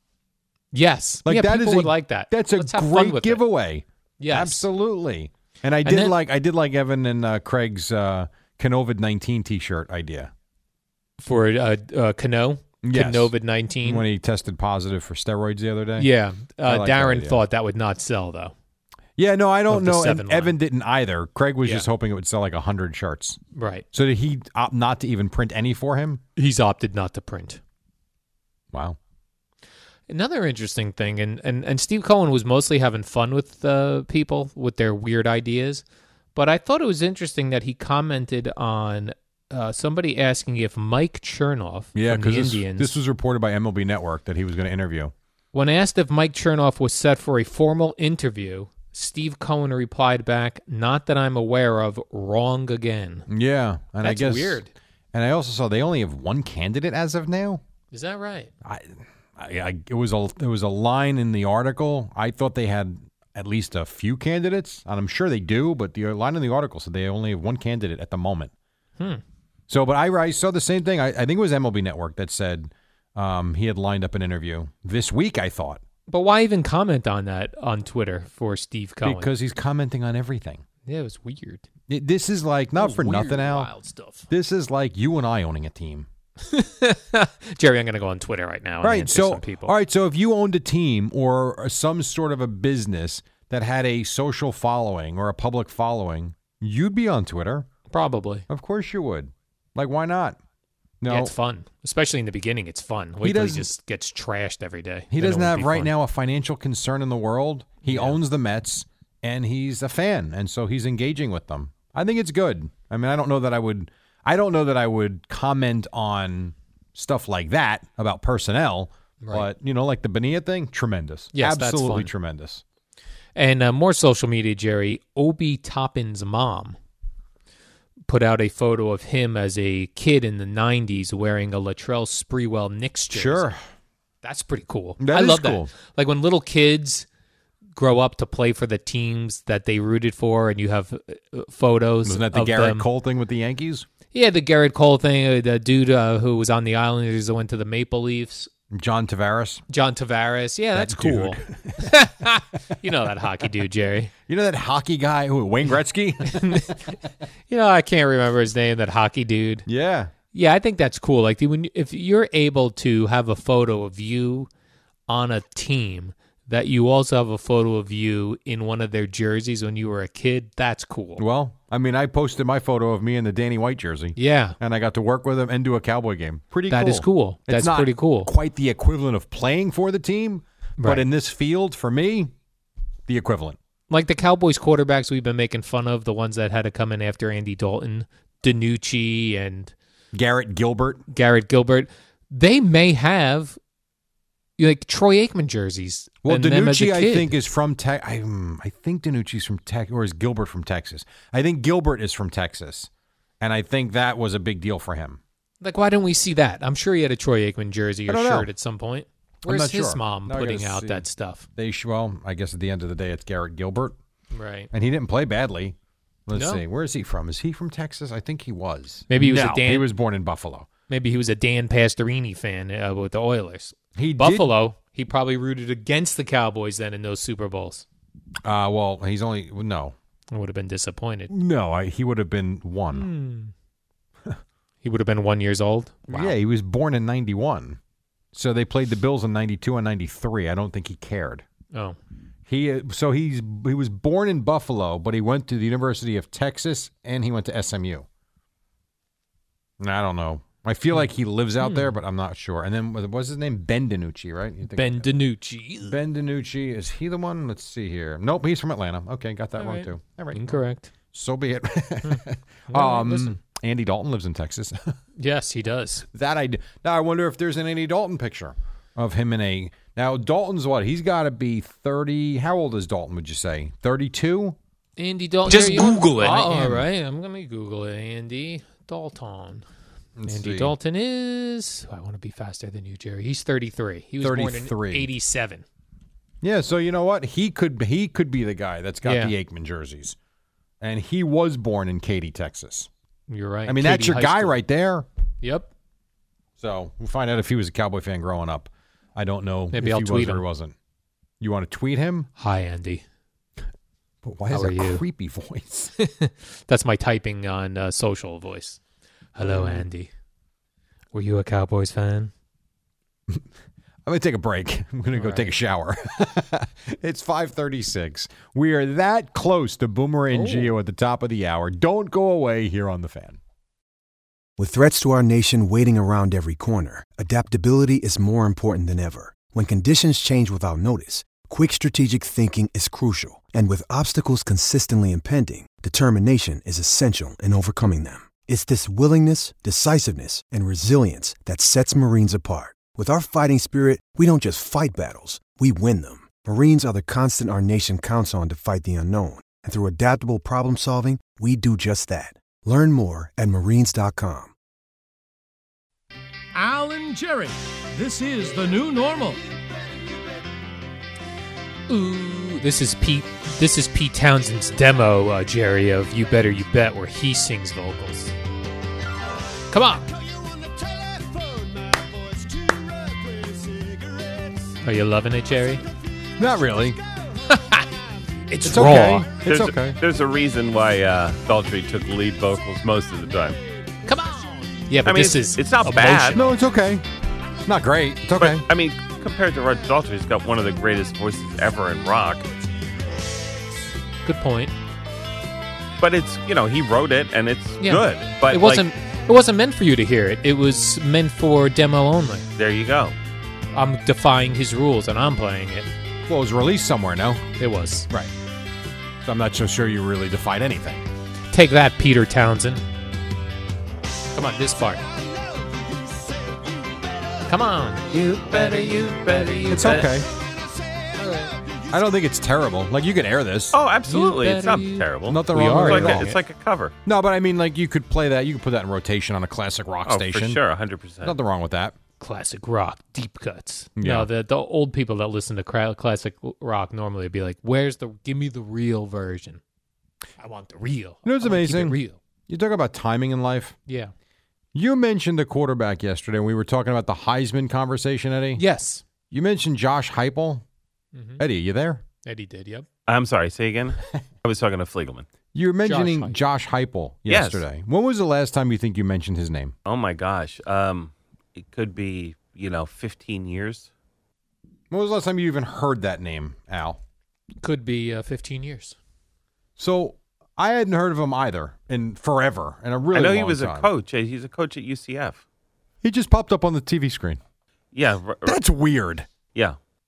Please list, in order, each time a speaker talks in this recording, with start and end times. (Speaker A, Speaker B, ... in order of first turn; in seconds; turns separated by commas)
Speaker A: 0.7-3.4, Speaker B: 1.2-10.3, Speaker A: 4.2-4.7, Speaker A: 5.8-6.2, Speaker A: 11.2-14.1, Speaker B: 12.8-16.1, Speaker A: 16.0-18.5, Speaker B: 16.6-17.4, Speaker B: 19.2-23.4, Speaker A: 19.7-20.6, Speaker A: 23.6-23.9, Speaker B: 23.9-26.2, Speaker A: 26.4-27.6, Speaker B: 28.7-29.0, Speaker A: 30.1-35.8, Speaker A: 36.4-43.0, Speaker B: 42.0-45.1, Speaker A: 45.5-53.3, Speaker B: 53.3-54.6, Speaker A: 54.0-54.7, Speaker B: 55.1-57.6, Speaker A: 57.9-58.5, Speaker B: 58.6-68.5, Speaker B: 69.7-75.8, Speaker A: 76.1-79.3, Speaker B: 79.0-80.6, Speaker A: 80.9-81.7, Speaker B: 81.9-83.7, Speaker A: 82.8-84.3, Speaker B: 84.3-86.1, Speaker A: 86.5-89.7, Speaker B: 88.8-97.7, Speaker A: 97.9-98.5, Speaker B: 98.5-100.4, Speaker B: 101.0-101.3, Speaker A: 101.1-105.9, Speaker B: 103.2-103.7, Speaker B: 105.1-122.6, Speaker A: 107.8-108.2, Speaker A: 119.2-119.5, Speaker A: 121.3-122.1, Speaker A: 123.4-126.8, Speaker A: 128.1-133.5, Speaker B: 133.1-133.6, Speaker A: 134.2-137.1, Speaker B: 135.0-135.7, Speaker A: 137.8-142.9, Speaker B: 142.1-143.9, Speaker A: 144.1-148.5, Speaker B: 148.7-149.6, Speaker A: 149.7-154.1, Speaker B: 150.7-151.9, Speaker B: 154.3-156.8, Speaker A: 156.3-156.9, Speaker A: 157.5-159.7, Speaker B: 159.7-160.1, Speaker A: 160.3-164.5, Speaker A: 165.1-171.2, Speaker B: 171.2-182.3, Speaker A: 174.2-174.6, Speaker A: 176.7-178.3, Speaker A: 180.8-181.1, Speaker B: 183.1-183.6, Speaker A: 183.9-189.7, Speaker B: 190.1-191.0, Speaker A: 191.1-193.6, Speaker A: 194.6-197.3, Speaker B: 196.2-202.9, Speaker B: 203.4-205.2, Speaker A: 205.6-211.5, Speaker B: 208.1-208.5, Speaker B: 209.4-214.0, Speaker A: 214.3-214.7, Speaker B: 214.7-220.7, Speaker A: 216.3-216.6, Speaker A: 219.1-219.9, Speaker A: 220.9-227.8, Speaker B: 224.0-224.5, Speaker B: 228.4-230.0, Speaker A: 230.3-231.3, Speaker B: 231.3-233.1, Speaker A: 232.9-233.5, Speaker A: 234.8-236.3, Speaker B: 236.1-237.8, Speaker B: 238.3-241.5, Speaker A: 241.7-242.0, Speaker B: 242.5-248.1, Speaker B: 249.8-255.1, Speaker A: 251.6-252.0, Speaker A: 254.7-256.0, Speaker B: 255.8-265.0, Speaker A: 259.6-260.9, Speaker A: 262.0-263.4, Speaker A: 265.2-266.1, Speaker B: 266.1-274.6, Speaker A: 275.0-279.6, Speaker B: 275.5-276.9, Speaker B: 280.2-280.8, Speaker A: 280.3-285.6, Speaker B: 284.2-285.1, Speaker B: 286.4-290.2, Speaker A: 289.0-289.4, Speaker B: 290.8-292.9, Speaker A: 293.3-294.6, Speaker B: 293.7-295.1, Speaker A: 295.4-295.7, Speaker B: 296.6-300.8, Speaker A: 299.7-300.4, Speaker B: 301.4-302.3, Speaker A: 302.4-303.0, Speaker B: 304.2-305.9, Speaker A: 304.5-305.0, Speaker A: 306.0-308.8, Speaker A: 309.4-310.1, Speaker B: 309.4-309.9, Speaker A: 311.1-312.3, Speaker B: 314.1-323.4, Speaker A: 315.1-315.6, Speaker A: 320.3-320.8, Speaker C: 324.6-354.5, Speaker D: 356.5-359.4, Speaker A: 361.9-368.3, Speaker A: 369.7-370.1, Speaker A: 374.8-375.8, Speaker B: 376.4-377.0, Speaker A: 377.5-377.9, Speaker A: 378.5-379.3, Speaker B: 378.6-380.0, Speaker E: 379.4-383.6, Speaker A: 384.1-386.5, Speaker E: 385.1-386.4, Speaker B: 386.3-387.1, Speaker B: 387.6-388.7, Speaker E: 388.4-392.5, Speaker A: 394.2-394.7, Speaker E: 396.0-398.9, Speaker A: 397.8-402.5, Speaker E: 402.6-403.1, Speaker A: 403.7-405.9, Speaker B: 406.3-407.4, Speaker A: 407.6-408.1, Speaker B: 409.2-411.0, Speaker A: 411.5-412.8, Speaker A: 414.3-415.0, Speaker A: 417.5-420.1, Speaker E: 418.1-420.1, Speaker B: 419.7-420.3, Speaker A: 421.2-421.6, Speaker B: 421.9-423.8, Speaker E: 423.7-426.9, Speaker A: 424.1-426.4, Speaker B: 425.2-426.3, Speaker B: 427.1-430.6, Speaker E: 430.1-431.4, Speaker B: 431.2-432.0, Speaker A: 432.2-439.6, Speaker B: 434.0-434.3, Speaker A: 440.4-442.2, Speaker B: 441.2-442.0, Speaker B: 442.5-443.8, Speaker A: 443.9-444.1, Speaker B: 444.7-448.6, Speaker A: 448.6-449.0, Speaker B: 449.3-450.6, Speaker A: 451.1-451.4, Speaker B: 451.4-452.0, Speaker A: 452.2-452.9, Speaker E: 453.1-455.3, Speaker B: 455.5-459.8, Speaker A: 455.9-456.4, Speaker E: 457.3-457.6, Speaker E: 459.9-463.9, Speaker B: 464.9-467.0, Speaker A: 467.6-469.0, Speaker B: 469.8-473.9, Speaker E: 473.1-475.4, Speaker B: 476.0-477.4, Speaker E: 477.9-478.6, Speaker B: 478.4-479.3